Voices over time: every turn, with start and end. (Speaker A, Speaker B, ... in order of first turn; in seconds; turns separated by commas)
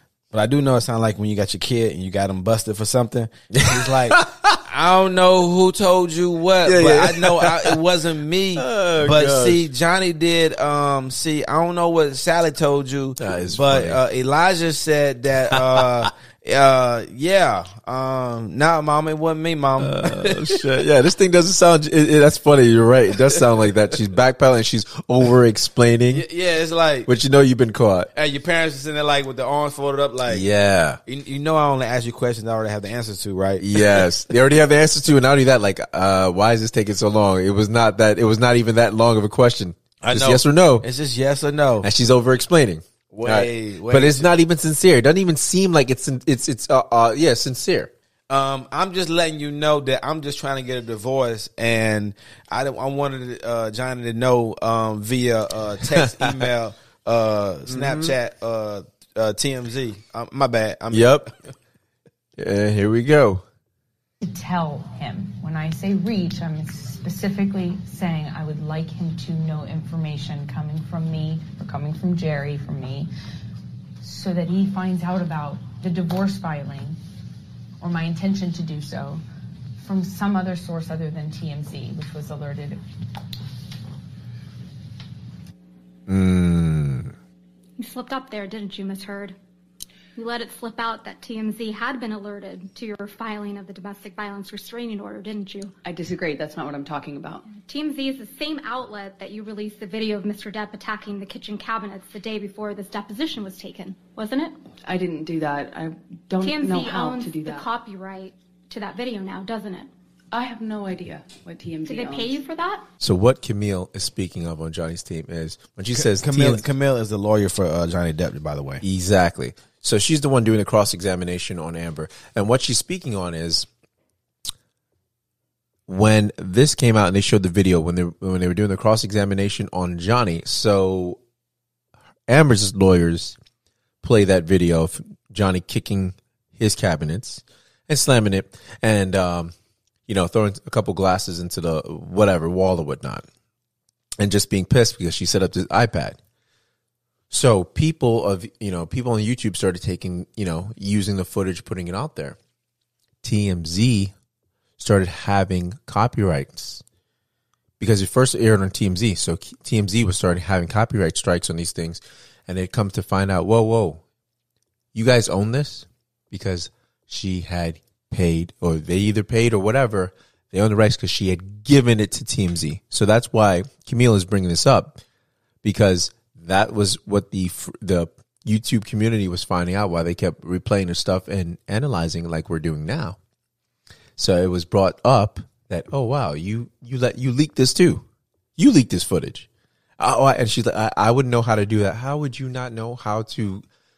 Speaker A: 0.3-20.6, Speaker B: 3.6-4.6, Speaker B: 6.7-7.8, Speaker B: 8.6-9.7, Speaker B: 13.2-14.0, Speaker B: 15.5-16.1, Speaker B: 19.8-26.3, Speaker A: 26.1-27.1, Speaker B: 27.1-28.1, Speaker A: 28.1-30.5, Speaker B: 30.3-31.0, Speaker A: 31.1-34.0, Speaker B: 33.6-40.9, Speaker A: 40.0-41.9, Speaker B: 41.8-47.9, Speaker A: 43.1-44.3, Speaker A: 48.3-61.3, Speaker B: 56.0-56.4, Speaker B: 57.7-58.1, Speaker B: 60.9-61.3, Speaker B: 62.4-63.4, Speaker C: 64.2-73.1, Speaker C: 74.0-77.0, Speaker C: 77.8-79.2, Speaker C: 79.8-82.8, Speaker B: 86.1-87.1, Speaker D: 87.8-89.4, Speaker D: 90.2-95.7, Speaker E: 95.8-97.5, Speaker D: 97.5-104.6, Speaker E: 104.8-107.7, Speaker D: 106.4-109.9, Speaker E: 110.3-112.4, Speaker D: 111.8-112.9, Speaker B: 113.0-116.7, Speaker A: 115.9-118.8, Speaker B: 118.8-123.7, Speaker B: 125.9-131.2, Speaker B: 132.3-133.4, Speaker B: 134.0-139.5, Speaker B: 140.1-143.3, Speaker B: 144.2-146.2, Speaker B: 147.3-152.4, Speaker B: 153.2-154.1, Speaker B: 154.8-156.8, Speaker B: 157.8-164.0, Speaker B: 164.9-175.0, Speaker B: 175.6-183.2, Speaker B: 184.2-188.1, Speaker B: 188.6-189.5, Speaker B: 190.0-193.7